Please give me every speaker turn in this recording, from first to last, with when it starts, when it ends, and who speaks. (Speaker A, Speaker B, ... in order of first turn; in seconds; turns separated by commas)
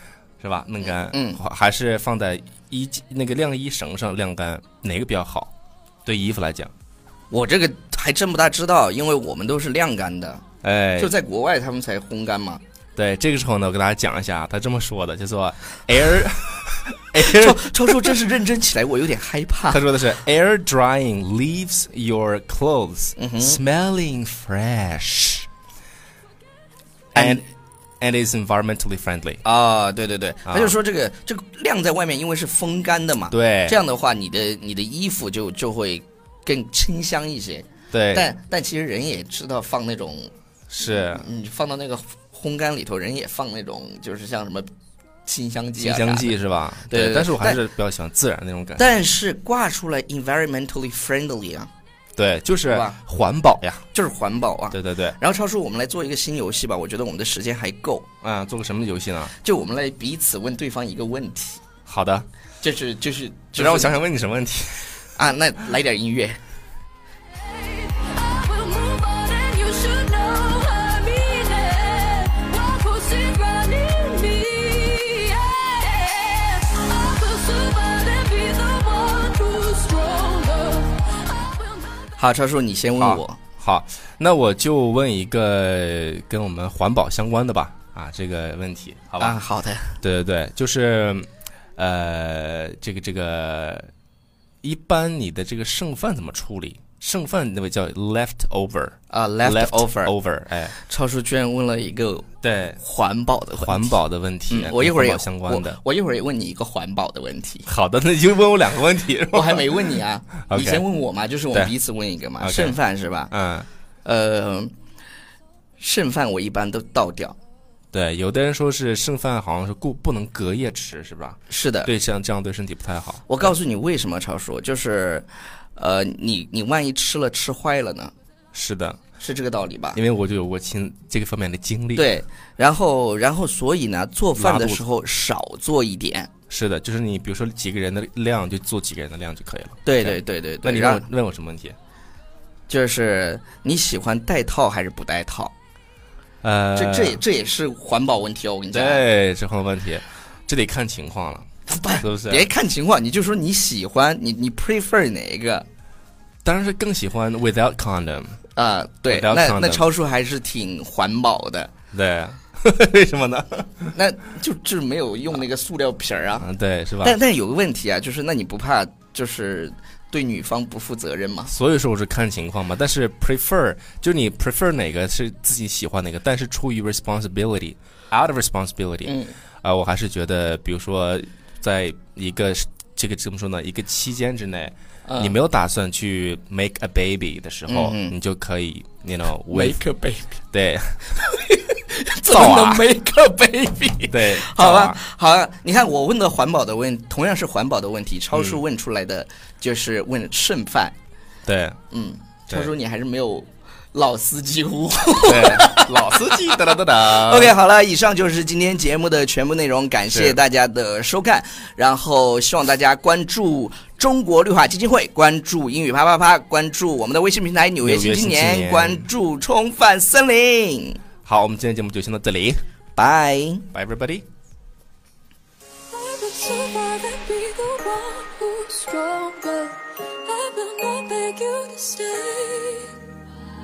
Speaker A: 0.4-5.5, Speaker B: 1.0-1.4, Speaker A: 6.0-6.7, Speaker B: 7.3-10.4, Speaker A: 10.6-11.1, Speaker B: 11.0-12.6, Speaker A: 13.0-18.2, Speaker B: 17.2-19.8, Speaker A: 19.7-25.5, Speaker B: 23.2-23.6, Speaker A: 27.1-27.4, Speaker B: 27.1-27.4, Speaker A: 28.0-29.4, Speaker B: 29.4-40.3, Speaker A: 30.5-30.8, Speaker A: 33.3-33.8, Speaker A: 37.9-38.3, Speaker A: 40.7-41.2, Speaker B: 40.8-44.7, Speaker B: 45.2-46.4, Speaker A: 45.8-48.9, Speaker B: 46.9-47.6, Speaker B: 48.8-51.7, Speaker A: 52.2-53.8, Speaker B: 52.7-53.0, Speaker B: 53.9-58.1, Speaker A: 54.7-55.2, Speaker A: 58.2-59.3, Speaker B: 59.4-61.6, Speaker A: 61.9-62.3, Speaker B: 62.6-64.0, Speaker A: 63.6-65.1, Speaker B: 65.2-66.4, Speaker C: 67.5-81.8, Speaker B: 82.2-83.4, Speaker A: 83.0-89.4, Speaker B: 89.2-90.0, Speaker A: 90.0-93.9, Speaker A: 94.6-100.8, Speaker B: 99.1-100.1, Speaker B: 100.8-102.3, Speaker A: 102.4-102.8, Speaker B: 102.8-107.7, Speaker A: 103.6-105.8, Speaker A: 107.7-109.8, Speaker B: 109.3-113.3, Speaker A: 110.5-110.8, Speaker A: 112.4-112.8, Speaker A: 113.3-113.7, Speaker B: 114.0-114.7, Speaker B: 115.8-117.4, Speaker A: 117.9-123.5, Speaker B: 121.5-121.9, Speaker B: 123.3-128.1, Speaker A: 128.5-129.0, Speaker B: 129.2-130.0, Speaker A: 129.9-132.1, Speaker B: 132.0-136.3, Speaker A: 134.4-134.8, Speaker A: 136.5-141.8, Speaker B: 139.8-141.1, Speaker B: 142.7-145.5, Speaker A: 146.4-147.2, Speaker B: 146.8-149.0, Speaker A: 148.7-151.5, Speaker B: 151.7-155.7, Speaker A: 152.0-152.5, Speaker A: 156.4-158.4, Speaker B: 158.6-161.7, Speaker A: 159.1-159.8, Speaker A: 161.9-163.9, Speaker B: 163.9-166.5, Speaker A: 166.4-167.2, Speaker B: 167.0-171.5, Speaker A: 171.5-189.8, Speaker B: 179.1-179.4, Speaker B: 185.1-185.3, Speaker B: 187.7-188.2, Speaker B: 189.5-190.3, Speaker A: 190.5-191.2, Speaker B: 191.2-200.9, Speaker A: 192.2-192.9, Speaker A: 194.1-195.0, Speaker A: 198.3-198.6, Speaker A: 201.5-201.8, Speaker B: 201.9-221.0, Speaker A: 205.2-207.5, Speaker A: 210.1-210.4, Speaker A: 217.8-219.1, Speaker A: 221.2-222.6, Speaker B: 223.0-223.7, Speaker A: 223.7-224.2, Speaker C: 225.9-233.0